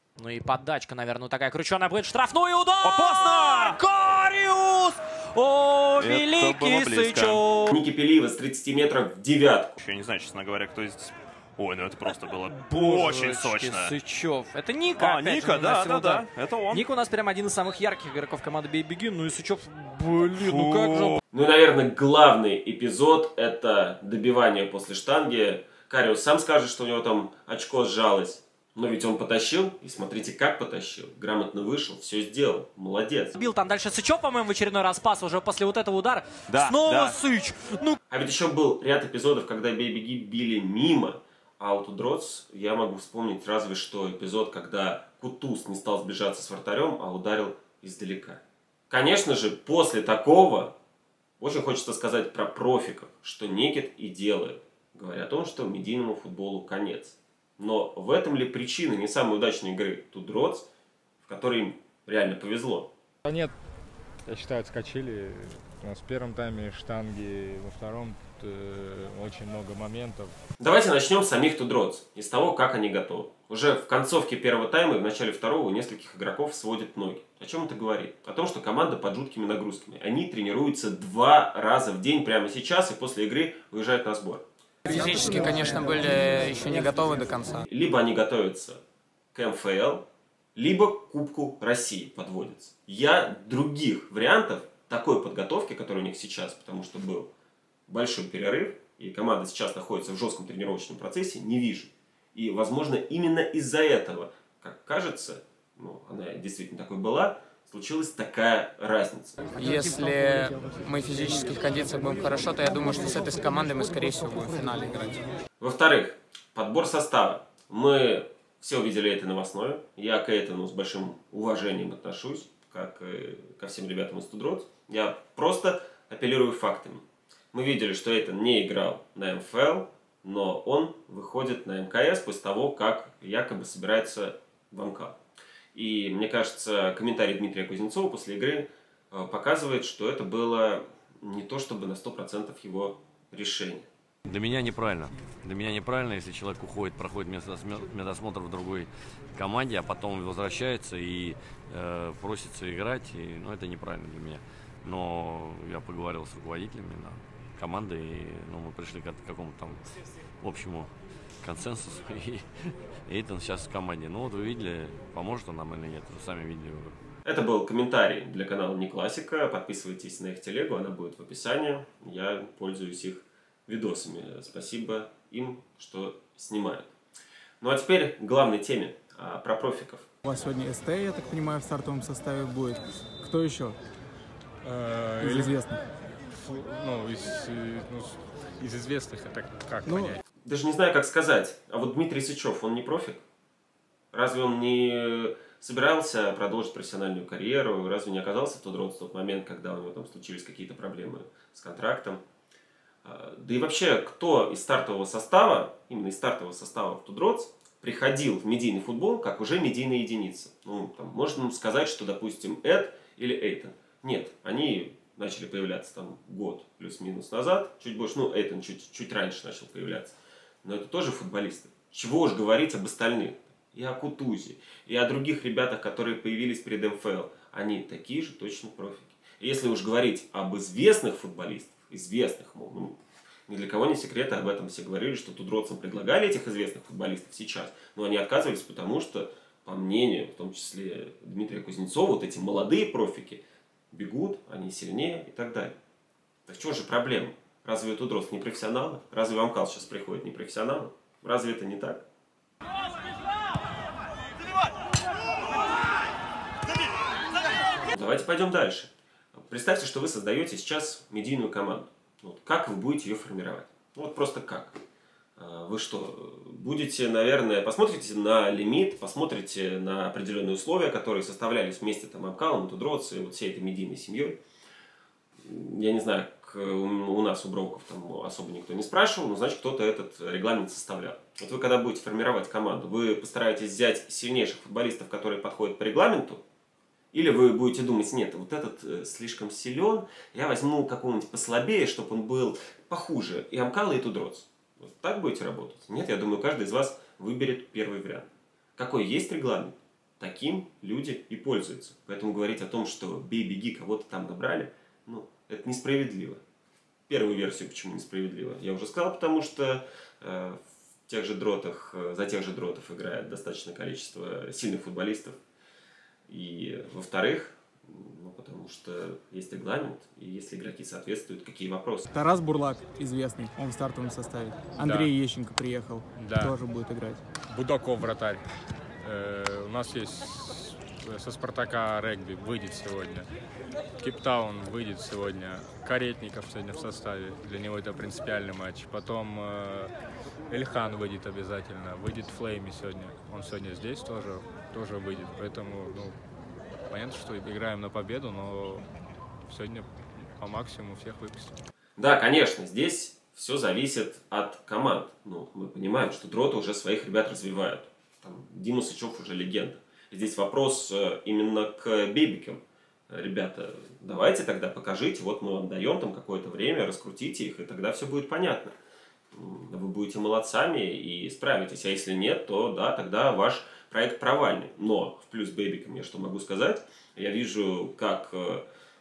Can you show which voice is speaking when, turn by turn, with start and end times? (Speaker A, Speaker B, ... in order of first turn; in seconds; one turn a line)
Speaker A: 0.2-7.7
Speaker B: 2.8-3.8
Speaker B: 6.0-7.4
Speaker C: 7.7-9.8
Speaker B: 9.8-14.0
Speaker A: 12.6-21.2
Speaker B: 14.9-16.9
Speaker B: 20.3-21.2
Speaker C: 21.3-33.4
Speaker A: 33.4-38.0
Speaker B: 36.5-37.1
Speaker C: 38.1-50.7
Speaker C: 51.4-60.7
Speaker C: 61.2-62.9
Speaker D: 63.2-63.5
Speaker D: 64.2-70.3
Speaker C: 70.6-84.4
Speaker E: 84.9-86.1
Speaker F: 84.9-87.6
Speaker E: 86.6-86.9
Speaker C: 87.7-88.8
Speaker C: 89.3-90.0
Speaker C: 90.5-97.3
Speaker C: 97.9-109.4
Speaker F: 109.5-115.2
Speaker C: 115.6-135.2
Speaker C: 135.7-143.9
Speaker G: 144.3-159.8
Speaker G: 160.4-160.9
Speaker G: 161.4-162.4
Speaker G: 163.1-166.9
Speaker C: 167.2-176.9
Speaker C: 177.6-180.1
Speaker E: 180.2-183.8
Speaker D: 184.6-185.5
Speaker E: 185.2-185.8
Speaker D: 186.3-190.2
Speaker E: 189.8-190.2
Speaker C: 190.4-193.2
Speaker C: 194.1-202.2
Speaker C: 203.0-232.9
Speaker C: 233.5-245.7
Speaker C: 246.5-252.0
Speaker C: 257.9-264.8
Speaker C: 265.4-274.4
Speaker C: 275.4-286.4
Speaker C: 287.1-306.4
Speaker C: 307.1-315.4
Speaker C: 316.3-322.1
Speaker E: 322.1-327.2
Speaker D: 324.8-325.1
Speaker D: 326.1-326.5
Speaker D: 327.5-328.4
Speaker D: 329.0-333.3
Speaker D: 334.0-339.9
Speaker D: 340.5-346.2
Speaker D: 346.9-348.9
Speaker D: 349.5-351.5
Speaker C: 352.0-368.7
Speaker C: 369.3-378.6